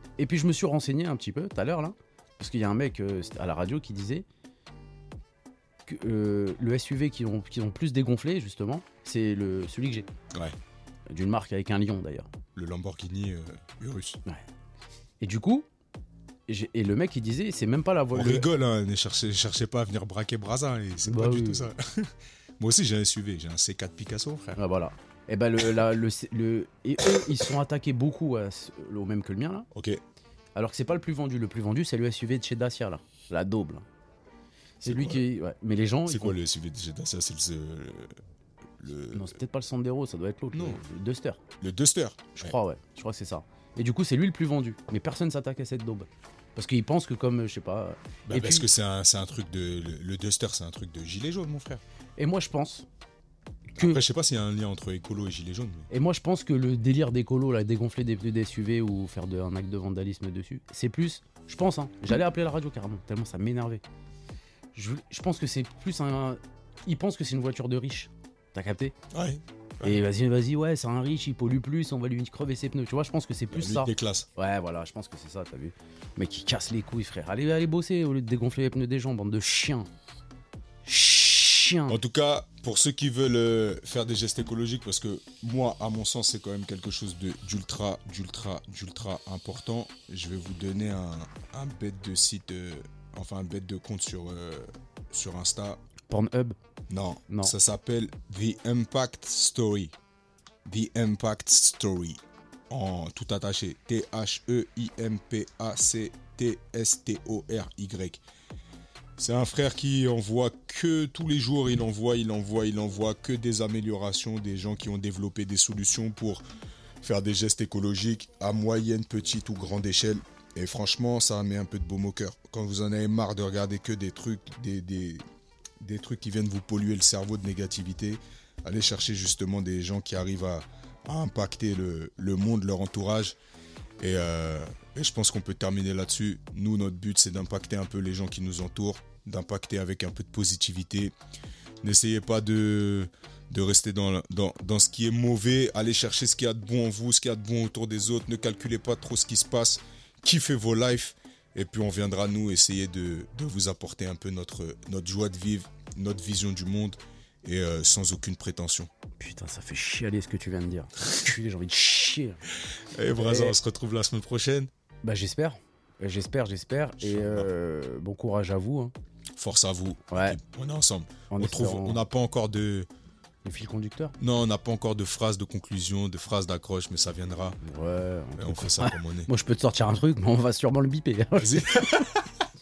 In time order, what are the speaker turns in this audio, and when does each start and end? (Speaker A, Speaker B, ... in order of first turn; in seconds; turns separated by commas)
Speaker A: 0.2-4.2, Speaker A: 5.8-10.1, Speaker A: 11.1-12.3, Speaker B: 12.5-14.2, Speaker A: 15.2-15.7, Speaker A: 16.5-18.5, Speaker B: 18.1-24.6, Speaker A: 21.0-21.7, Speaker A: 24.6-29.7, Speaker B: 27.0-27.4, Speaker B: 29.7-30.0, Speaker A: 30.5-33.8, Speaker A: 34.8-36.4, Speaker B: 34.8-35.2, Speaker B: 36.0-38.1, Speaker B: 38.8-39.3, Speaker A: 39.1-41.4, Speaker B: 40.5-40.8, Speaker B: 41.6-42.5, Speaker A: 42.3-48.7, Speaker B: 48.3-51.8, Speaker A: 52.2-52.9, Speaker A: 53.7-54.0, Speaker B: 53.8-55.9, Speaker A: 55.9-63.8, Speaker A: 64.7-69.0, Speaker B: 69.1-70.0, Speaker A: 69.8-79.9, Speaker B: 73.5-74.3, Speaker A: 80.8-82.0, Speaker B: 81.9-95.8, Speaker A: 96.1-96.5, Speaker B: 96.9-99.9, Speaker A: 97.3-97.5, Speaker B: 100.6-108.2, Speaker B: 109.2-116.4, Speaker B: 117.0-125.2, Speaker B: 125.8-133.4, Speaker B: 134.0-141.1, Speaker B: 141.8-158.9, Speaker A: 159.2-162.4, Speaker B: 162.9-164.7, Speaker A: 163.2-163.6, Speaker A: 165.0-168.9, Speaker B: 167.0-167.5, Speaker B: 169.3-172.9, Speaker A: 170.1-170.4, Speaker A: 171.3-172.0, Speaker A: 173.4-174.2, Speaker B: 174.2-177.6, Speaker A: 177.6-182.1, Speaker B: 178.4-179.3, Speaker B: 181.3-182.2